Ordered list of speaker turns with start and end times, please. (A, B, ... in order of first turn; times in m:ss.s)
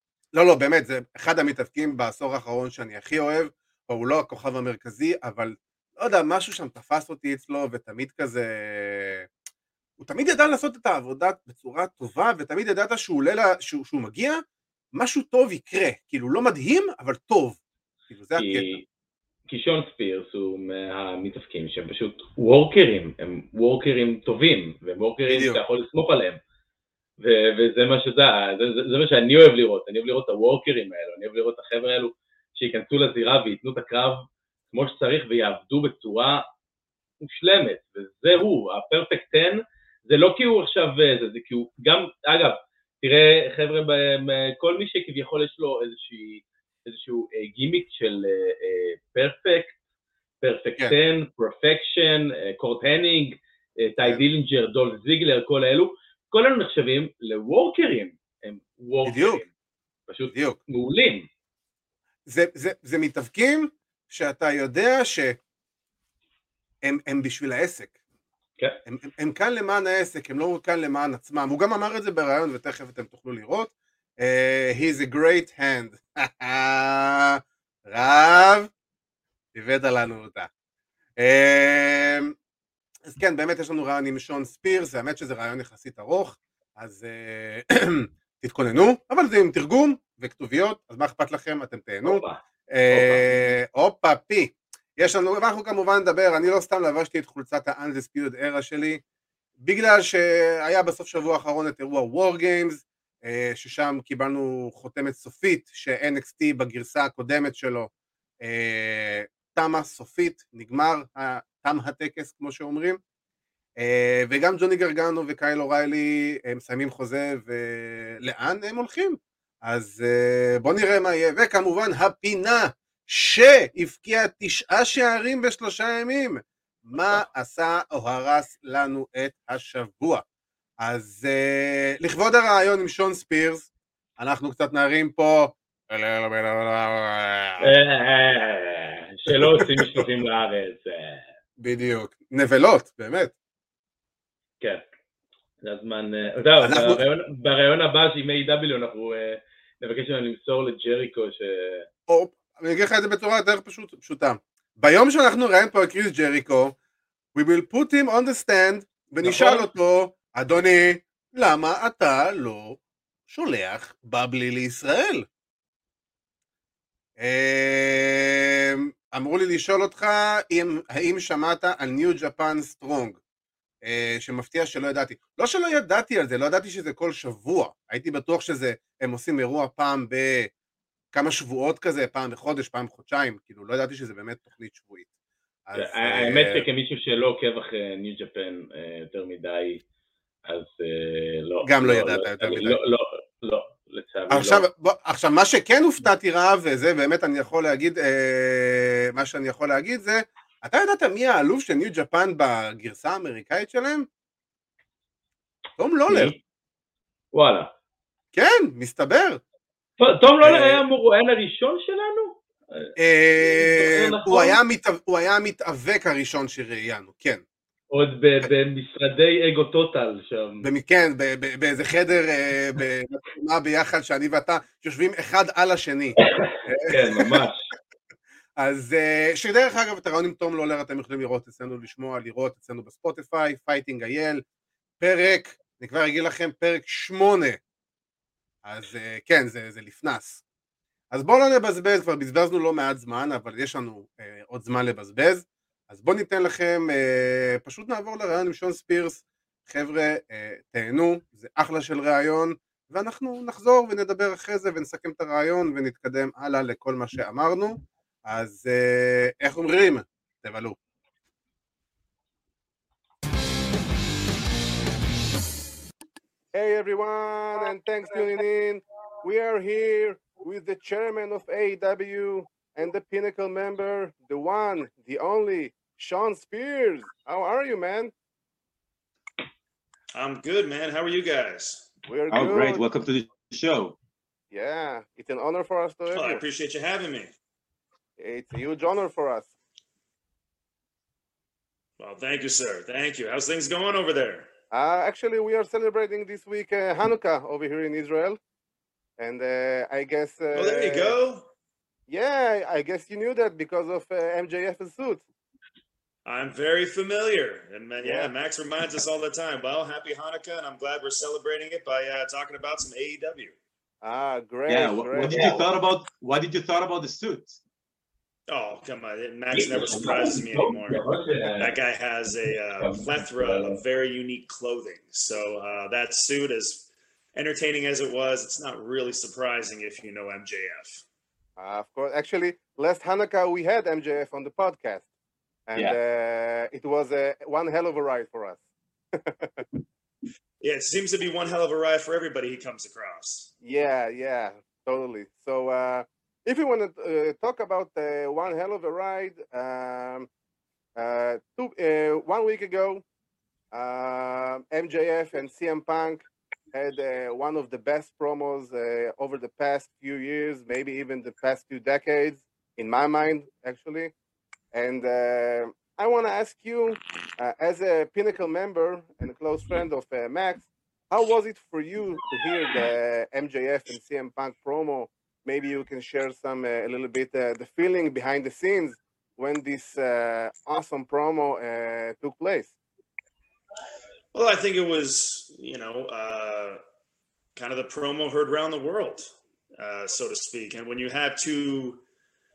0:00.3-0:09.3 A
0:10.0-0:14.4 A
0:15.0-0:18.7 A
0:18.4-0:18.8 B
0:19.5-0:26.4 B
0:25.3-0:25.6 A
0:27.2-0:36.5 B
0:37.2-0:49.7 B
0:50.4-0:59.5 B
0:59.0-0:59.4 A
1:00.1-1:01.3 B
1:00.3-1:00.6 A
1:02.3-1:05.4 A
1:06.8-1:07.9 A
1:08.9-1:18.7 A
1:19.6-1:20.5 A
1:21.2-1:22.3 A
1:23.0-1:39.0 A
1:32.0-1:32.4 B
1:32.9-1:33.6 B
1:39.6-1:47.9 A
1:48.4-1:53.0 A
1:53.8-2:10.2 A
2:10.8-2:13.7 A
2:14.2-2:17.7 A
2:17.6-2:21.2 B
2:19.3-2:20.0 A
2:21.6-2:23.3 A
2:25.6-2:31.9 B
2:26.6-2:27.0 A
2:32.1-2:36.8 A
2:37.4-2:45.2 A
2:39.2-2:39.7 B
2:47.2-2:53.2 A
2:53.8-3:00.5 A
3:01.1-3:05.1 A
3:05.7-3:06.7 A
3:05.8-3:09.8 B
3:10.5-3:14.6 B
3:11.6-3:12.8 A
3:14.3-3:24.1 A
3:25.8-3:26.3 A
3:26.1-3:26.4 B
3:27.3-3:27.7 B
3:28.3-3:29.4 A
3:30.0-3:34.6 B
3:30.4-3:30.8 A
3:33.0-3:37.4 A
3:37.9-3:40.7 B
3:40.6-3:47.5 A
3:46.4-3:47.6 B
3:48.6-3:54.4 A
3:55.0-3:57.6 A
3:58.6-4:00.4 A
4:01.1-4:20.8 A
4:26.5-4:38.1 A
4:40.1-4:41.9 C
4:42.1-4:42.8 A
4:42.3-4:44.0 D
4:44.5-4:46.4 A
4:46.1-4:47.3 C
4:48.2-4:49.5 A
4:52.0-4:54.5 C
4:54.7-4:58.4 A
4:59.2-5:01.2 A
5:00.5-5:01.5 C
5:02.1-5:05.2 A
5:06.3-5:13.6 C
5:08.0-5:08.3 A
5:14.0-5:15.6 A
5:14.7-5:17.6 D
5:18.5-5:21.0 C
5:19.6-5:21.7 B
5:21.6-5:31.0 C
5:22.8-5:23.8 B
5:31.6-5:35.1 A
5:35.7-5:38.6 A
5:39.1-5:39.7 A
5:40.6-5:43.5 C
5:43.6-5:50.3 A
5:51.0-5:53.0 A
5:53.7-6:04.1 A
6:04.7-6:22.7 A
6:24.3-6:26.8 C
6:27.6-6:32.0 C